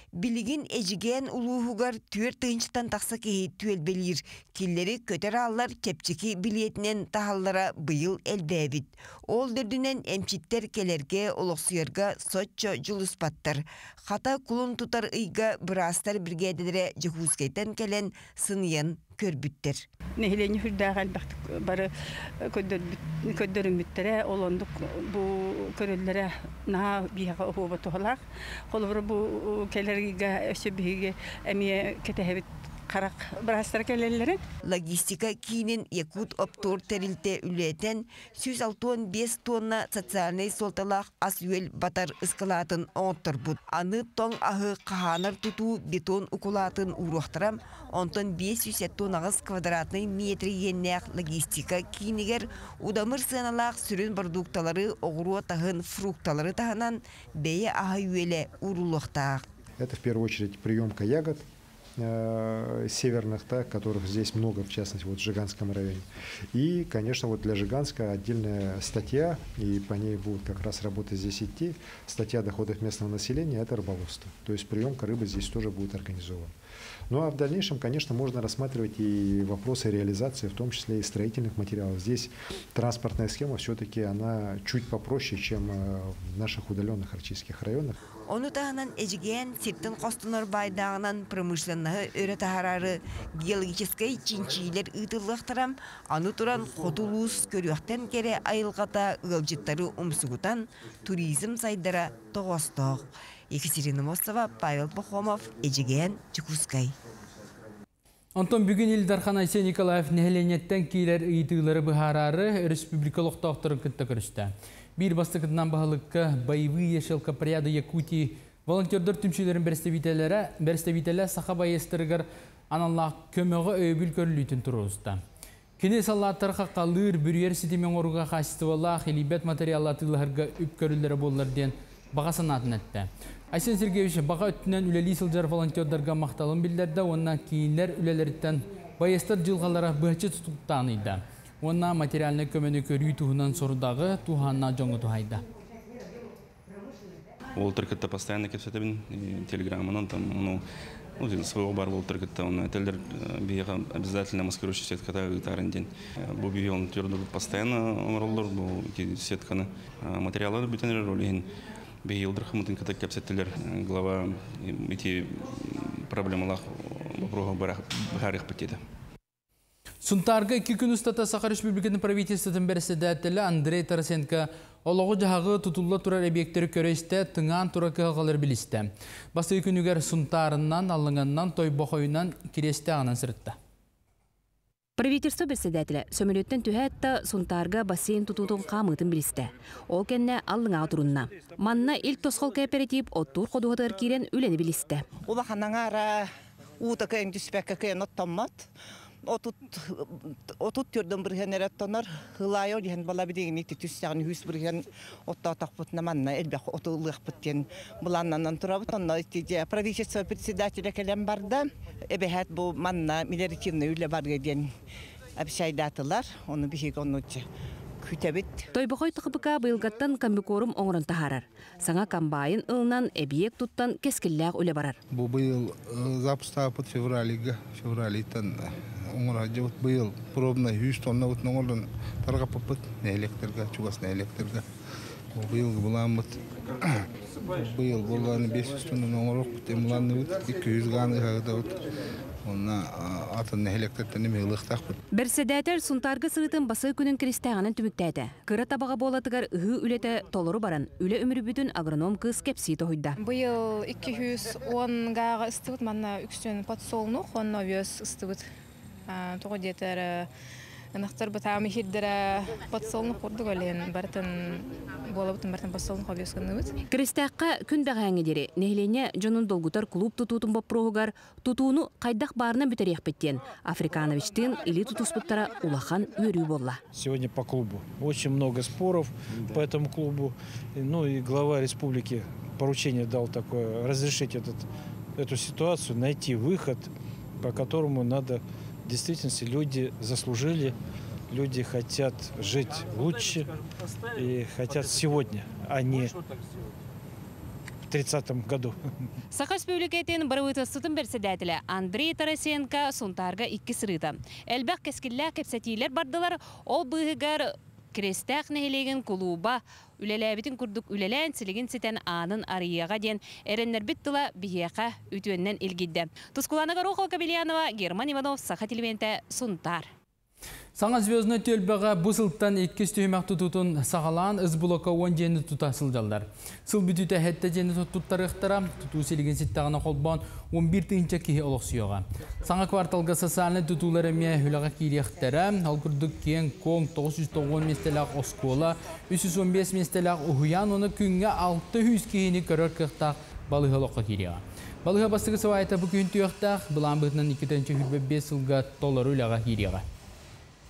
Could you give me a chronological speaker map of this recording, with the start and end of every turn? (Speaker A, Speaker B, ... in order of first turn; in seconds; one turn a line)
Speaker A: 0.1-19.9
Speaker B: 20.2-21.9
Speaker B: 22.5-28.2
Speaker B: 28.7-34.4
Speaker A: 34.6-59.4
Speaker C: 59.8-61.4
Speaker C: 62.0-76.5
Speaker C: 77.1-88.0
Speaker A: 88.3-107.0
Speaker D: 108.3-125.2
Speaker D: 125.8-145.4
Speaker E: 147.6-150.6
Speaker E: 151.2-161.5
Speaker E: 162.0-168.8
Speaker D: 170.0-183.6
Speaker F: 185.0-195.0
Speaker G: 195.3-198.7
Speaker G: 199.2-214.7
Speaker G: 215.4-217.5
Speaker G: 218.0-218.7
Speaker F: 218.7-225.0
Speaker H: 225.1-234.7
Speaker H: 235.3-241.8
Speaker H: 242.4-245.0
Speaker F: 245.1-253.1
Speaker I: 253.2-258.4
Speaker I: 259.1-260.3
Speaker I: 260.9-264.4
Speaker I: 265.1-266.7
Speaker F: 266.9-276.8
Speaker J: 276.9-290.8
Speaker J: 291.3-293.5
Speaker J: 294.1-296.2
Speaker J: 297.9-298.8
Speaker F: 299.5-307.4
Speaker F: 307.9-319.9
Speaker D: 320.8-349.8